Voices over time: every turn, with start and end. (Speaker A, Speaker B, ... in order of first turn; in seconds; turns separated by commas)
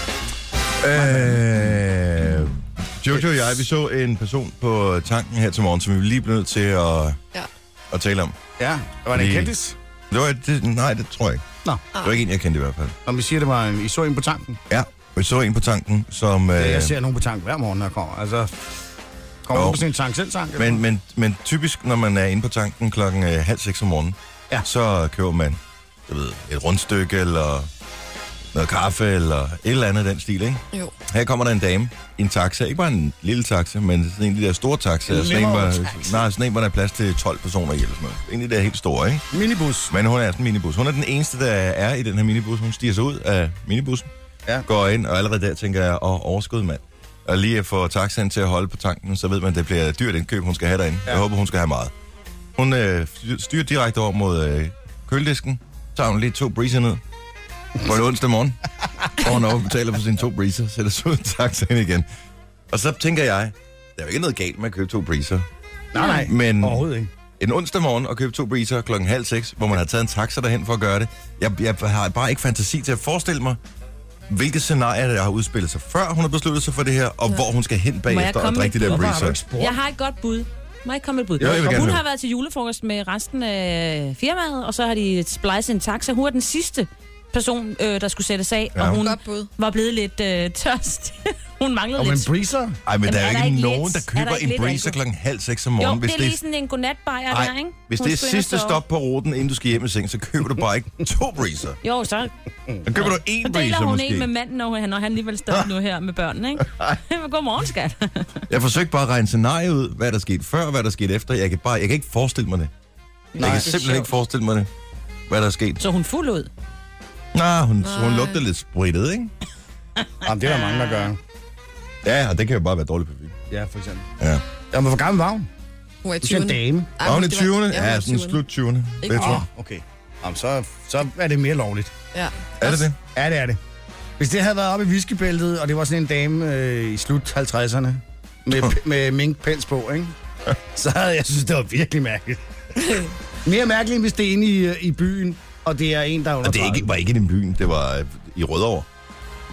Speaker A: 0.8-7.2, Speaker B: 0.9-1.8, Speaker A: 7.9-8.3, Speaker B: 8.6-9.8, Speaker A: 9.1-9.5, Speaker A: 10.1-11.4, Speaker A: 12.0-12.9, Speaker B: 13.0-14.6, Speaker A: 14.7-16.9, Speaker B: 16.6-18.7, Speaker B: 19.4-20.8, Speaker A: 19.5-19.8, Speaker A: 20.6-27.7, Speaker A: 28.5-39.2, Speaker B: 35.1-36.3, Speaker B: 39.3-39.9, Speaker A: 39.9-44.1, Speaker A: 44.6-51.9, Speaker A: 52.6-57.0, Speaker A: 57.8-58.6, Speaker A: 59.1-62.0, Speaker A: 62.7-65.5, Speaker B: 65.9-67.1, Speaker A: 66.1-66.8, Speaker A: 67.4-73.6, Speaker A: 74.3-79.4, Speaker C: 78.1-92.3, Speaker B: 78.7-79.8, Speaker B: 81.4-82.0, Speaker A: 81.4-82.0, Speaker A: 88.8-89.0, Speaker D: 88.9-89.5, Speaker B: 92.0-92.8, Speaker A: 92.8-96.4, Speaker C: 93.0-95.0, Speaker C: 95.8-98.8, Speaker A: 97.3-101.8, Speaker C: 101.8-102.3, Speaker A: 102.8-104.3, Speaker C: 102.8-108.4, Speaker A: 108.5-112.7, Speaker C: 113.3-114.1, Speaker A: 113.4-114.7, Speaker B: 113.4-113.6, Speaker A: 115.3-115.8, Speaker C: 115.8-116.5, Speaker A: 117.3-119.3, Speaker D: 117.8-118.4, Speaker B: 120.2-121.2, Speaker C: 120.6-121.1, Speaker A: 122.0-123.3, Speaker B: 123.5-124.1, Speaker A: 124.2-124.4, Speaker B: 124.7-125.5, Speaker D: 126.0-128.4, Speaker B: 126.2-126.9, Speaker A: 127.0-129.4, Speaker D: 129.0-129.4, Speaker B: 129.1-131.9, Speaker D: 132.1-132.9, Speaker A: 132.6-132.9, Speaker B: 133.0-133.6, Speaker B: 134.2-140.1, Speaker B: 140.8-142.4, Speaker B: 143.4-146.9, Speaker A: 146.4-148.9